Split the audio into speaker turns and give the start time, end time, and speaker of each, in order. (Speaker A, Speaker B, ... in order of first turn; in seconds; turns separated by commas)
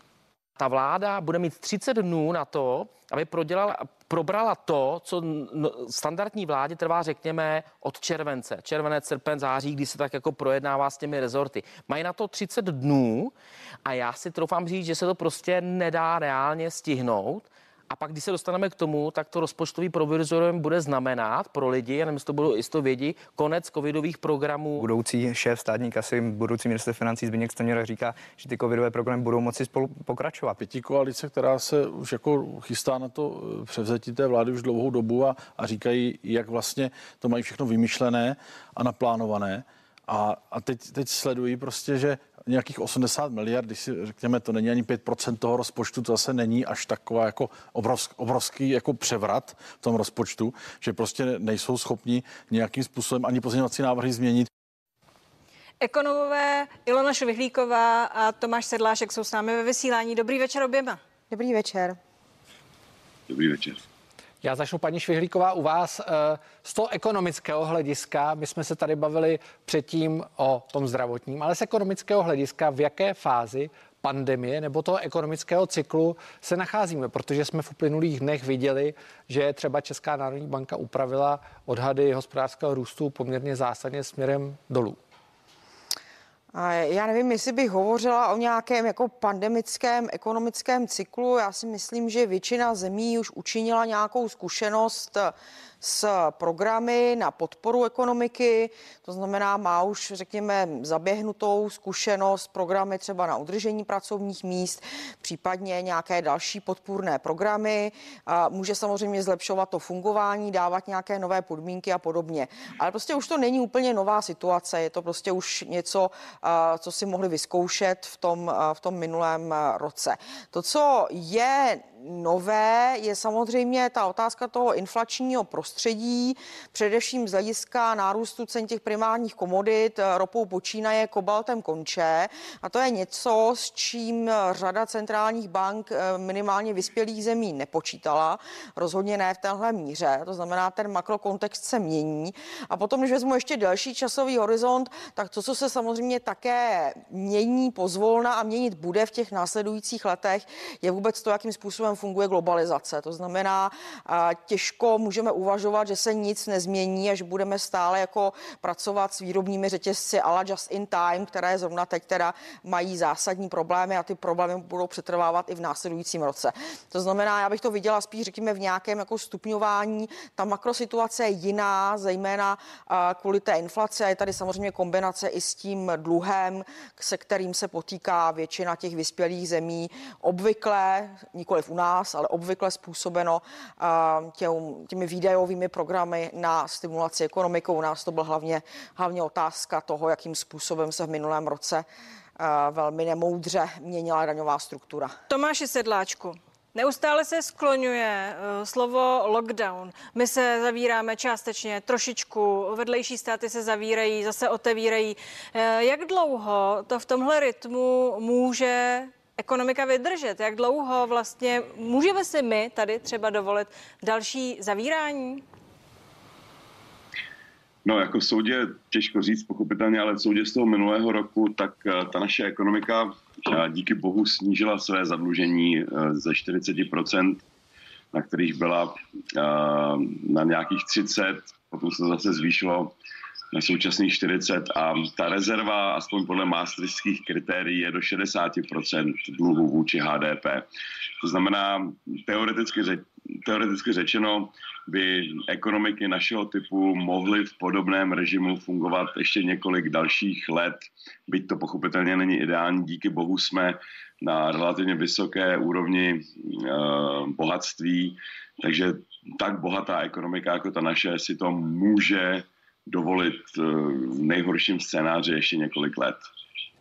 Speaker A: 0.6-24.9, Speaker B: 24.8-30.6, Speaker C: 30.6-54.5, Speaker D: 55.8-61.0, Speaker E: 61.3-62.0, Speaker F: 63.3-63.8, Speaker G: 64.4-85.0, Speaker E: 86.5-191.8, Speaker E: 192.4-195.1, Speaker D: 195.3-215.4, Speaker F: 217.8-227.4, Speaker F: 228.1-232.9, Speaker F: 233.5-240.7, Speaker F: 241.2-266.3